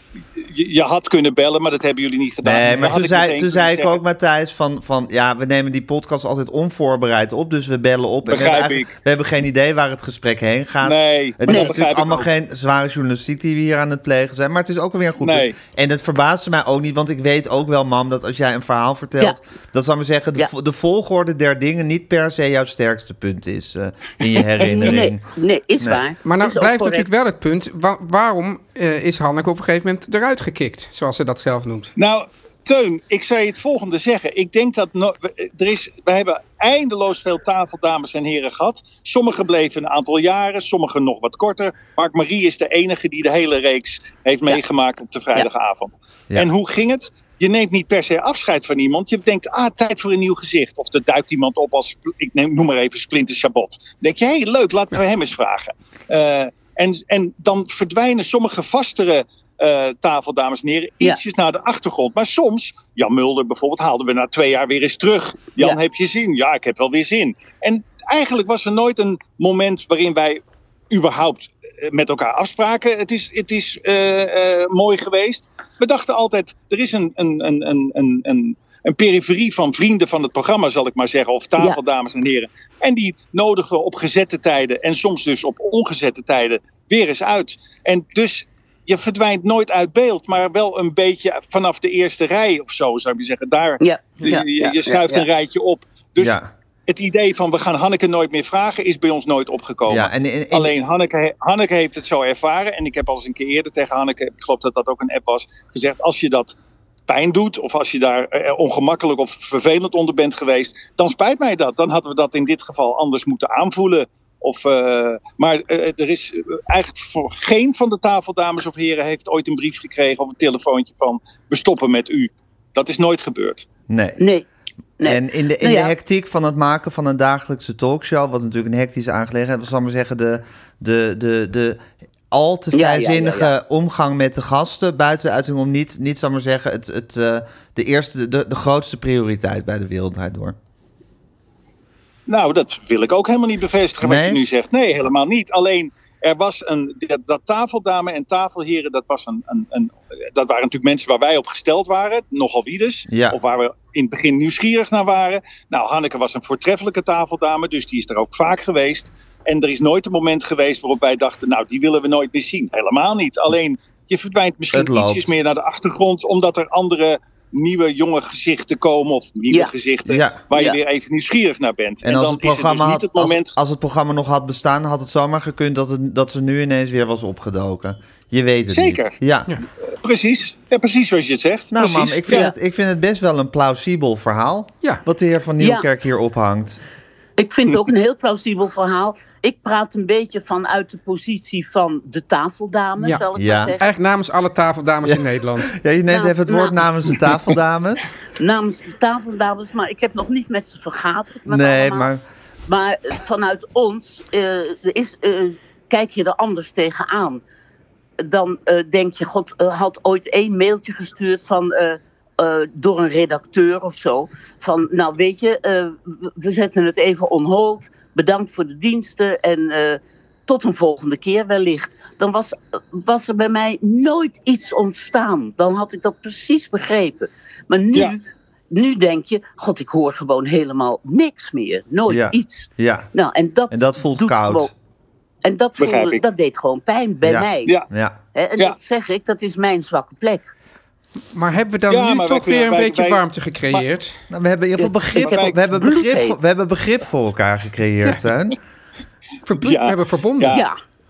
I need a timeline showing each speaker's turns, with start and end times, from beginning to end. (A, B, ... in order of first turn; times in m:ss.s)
0:00.3-0:04.0 A
0:02.4-0:25.2 B
0:08.3-0:08.9 A
0:10.8-0:12.3 A
0:11.5-0:11.8 C
0:15.2-0:15.6 A
0:24.7-0:27.1 C
0:26.2-0:31.9 D
0:32.0-1:36.4 A
1:33.8-1:35.3 C
1:36.2-1:36.5 B
1:36.9-1:46.6 A
1:39.9-1:40.7 B
1:47.1-2:03.7 A
2:03.9-2:04.2 B
2:04.2-2:04.5 C
2:05.0-2:05.9 C
2:05.0-2:20.6 B
2:12.7-2:13.5 C
2:22.3-2:53.6 A
2:24.0-2:24.4 B
2:33.1-2:33.4 B
2:44.7-2:45.3 B
2:50.1-2:50.4 B
2:50.5-2:50.8 C
2:52.0-2:59.5 B
2:58.7-2:59.2 A
3:00.0-3:02.4 A
3:01.7-3:06.8 B
3:02.3-3:02.5 C
3:05.6-3:05.9 C
3:07.4-3:13.8 C
3:13.0-3:13.2 D
3:13.4-3:13.8 B
3:13.8-3:15.8 D
3:15.0-3:18.1 B
3:16.1-3:16.9 C
3:18.4-3:22.1 C
3:21.5-3:22.2 B
3:22.7-3:27.4 C
3:28.2-3:54.7 C
3:52.1-3:53.1 B
3:53.7-3:54.7 B
3:55.4-3:57.7 C
3:55.8-3:56.2 A
3:57.2-3:58.2 B
3:58.3-4:00.5 C
4:01.3-4:04.2 D
4:01.9-4:03.8 A
4:04.3-4:08.6 B
4:04.8-4:06.4 C
4:05.2-4:05.6 A
4:09.4-4:10.6 D
4:09.6-4:10.6 A